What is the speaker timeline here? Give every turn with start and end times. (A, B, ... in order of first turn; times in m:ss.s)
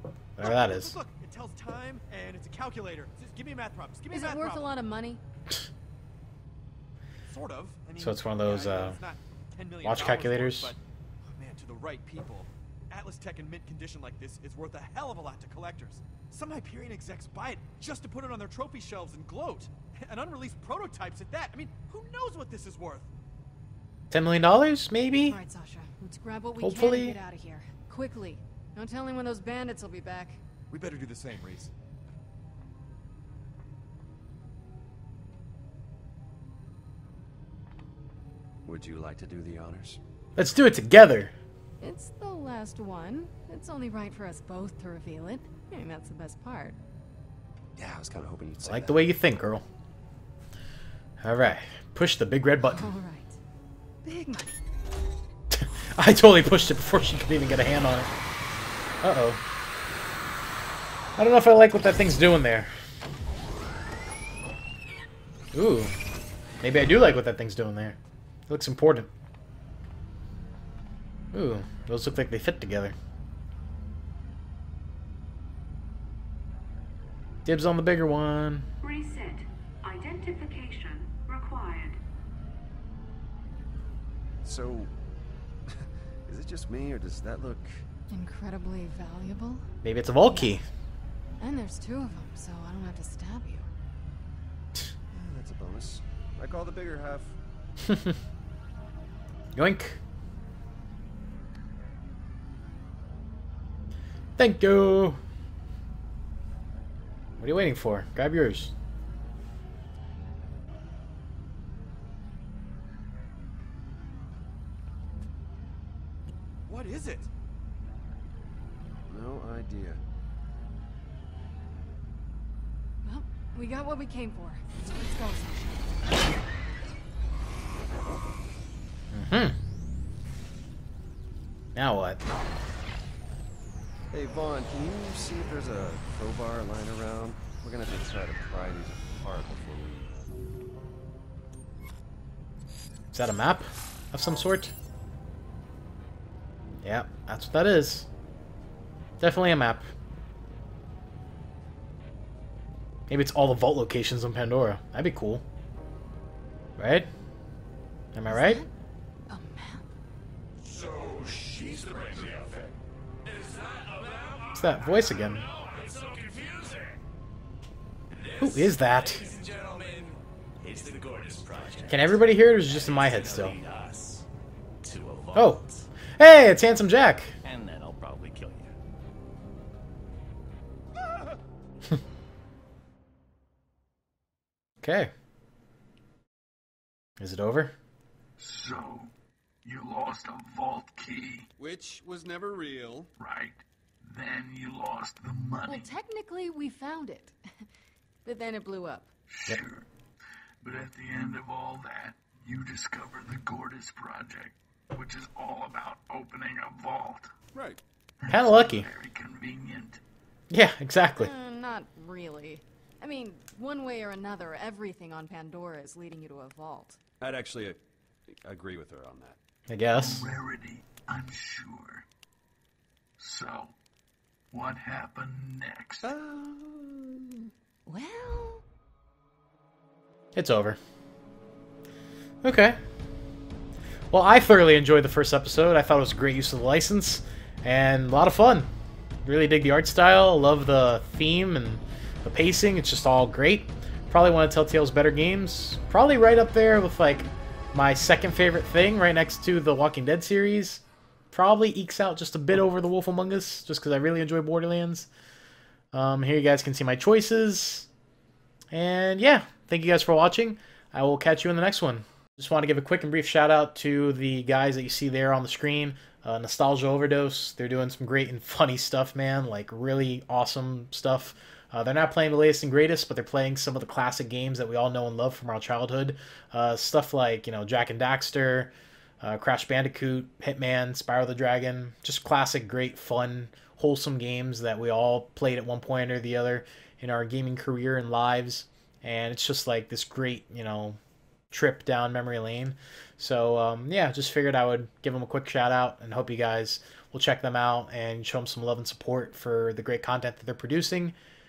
0:00.4-0:00.9 A
0:00.4-0:04.7 B
0:04.1-0:05.2 C
0:07.2-0:23.1 B
0:08.0-0:09.0 A
0:09.8-0:10.7 A
0:24.1-0:25.4 A
0:25.2-0:30.4 C
0:26.6-0:27.2 A
0:30.7-0:31.7 B
0:38.6-0:40.0 D
0:40.4-0:41.3 A
0:41.8-0:46.8 C
0:47.8-0:49.1 D
0:48.6-0:49.6 A
0:51.2-0:52.9 A
0:52.8-0:53.4 C
0:54.2-0:54.5 C
0:55.5-0:58.1 A
0:59.0-0:59.4 A
1:01.2-1:02.7 A
1:05.5-1:06.0 A
1:06.6-1:08.0 A
1:08.5-1:09.1 A
1:11.3-1:12.9 A
1:17.4-1:18.7 A
1:18.8-1:22.0 E
1:24.4-1:24.9 D
1:25.8-1:27.8 D
1:28.1-1:29.7 C
1:29.8-1:30.6 A
1:30.2-1:30.6 C
1:31.4-1:33.7 C
1:35.1-1:37.4 D
1:37.8-1:38.2 A
1:39.5-1:40.0 A
1:44.4-1:45.2 A
1:47.4-1:48.7 A
1:56.7-1:57.3 B
1:59.1-2:00.0 D
2:03.0-2:05.9 C
2:09.1-2:09.6 A
2:11.7-2:12.2 A
2:14.1-2:20.3 D
2:23.1-2:24.7 A
2:26.8-2:28.1 A
2:29.2-2:29.9 A
2:33.1-2:35.4 A
2:36.8-2:37.1 A
2:38.1-2:38.6 A
2:38.3-2:38.7 C
2:39.3-2:39.9 C
2:40.6-2:42.7 F
2:43.9-2:44.4 F
2:44.5-2:45.4 A
2:45.9-2:46.5 F
2:48.2-2:49.1 G
2:48.4-2:49.2 A
2:50.6-2:54.2 G
2:51.9-2:53.6 A
2:54.8-2:55.6 G
2:55.3-2:55.6 A
2:56.2-2:57.3 A
2:57.4-2:58.7 G
3:04.8-3:05.1 A
3:07.2-3:07.7 A
3:08.4-3:09.1 F
3:09.6-3:11.5 F
3:11.6-3:13.1 B
3:13.2-3:15.9 F
3:15.6-3:17.6 C
3:18.2-3:19.1 C
3:19.3-3:19.8 F
3:20.6-3:27.3 F
3:28.2-3:30.0 F
3:28.3-3:28.9 A
3:30.5-3:31.3 A
3:31.2-3:37.0 C
3:37.2-3:37.8 D
3:38.3-3:39.4 D
3:39.7-3:40.2 A
3:39.9-3:42.0 F
3:43.2-3:43.7 F
3:44.5-3:46.1 F
3:47.8-3:48.6 C
3:50.3-3:50.8 A
3:52.4-3:52.8 A
3:54.1-3:58.7 A
3:59.2-4:15.1 A
4:15.9-4:17.9 A
4:18.7-4:51.0 A
4:51.5-5:01.1 A